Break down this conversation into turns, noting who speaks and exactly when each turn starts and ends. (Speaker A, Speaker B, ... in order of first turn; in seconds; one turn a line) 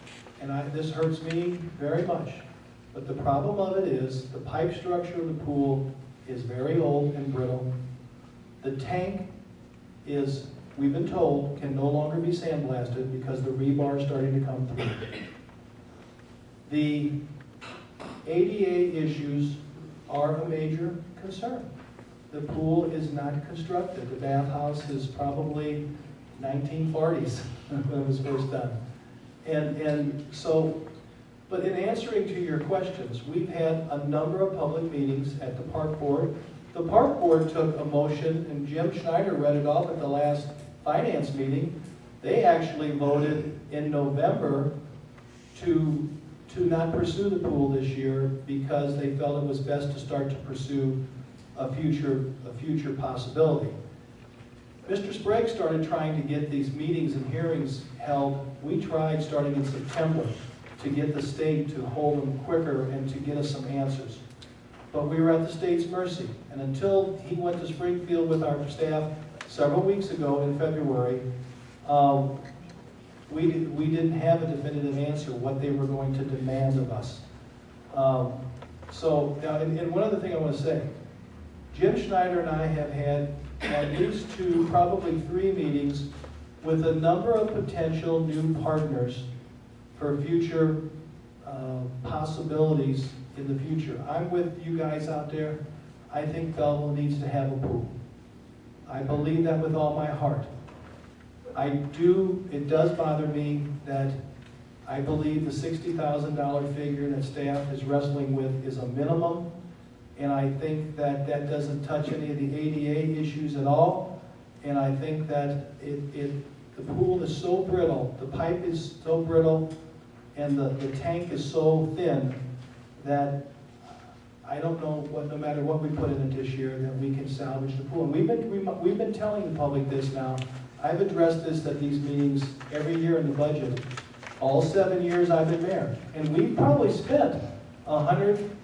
Speaker A: 0.4-7.7
Speaker A: 8.6-9.3
Speaker A: 10.0-15.1
Speaker A: 16.6-17.1
Speaker A: 18.2-21.7
Speaker A: 22.3-25.8
Speaker A: 26.3-28.8
Speaker A: 29.4-30.8
Speaker A: 31.5-44.7
Speaker A: 45.5-51.0
Speaker A: 51.5-53.8
Speaker A: 54.9-64.2
Speaker A: 64.9-71.2
Speaker A: 71.8-72.3
Speaker A: 73.3-77.2
Speaker A: 77.9-80.9
Speaker A: 81.7-86.1
Speaker A: 86.6-89.3
Speaker A: 89.9-90.8
Speaker A: 91.4-95.6
Speaker A: 96.1-97.9
Speaker A: 98.9-100.5
Speaker A: 101.5-104.2
Speaker A: 104.8-109.5
Speaker A: 110.2-114.1
Speaker A: 114.6-119.7
Speaker A: 120.3-122.4
Speaker A: 123.0-133.8
Speaker A: 134.4-138.4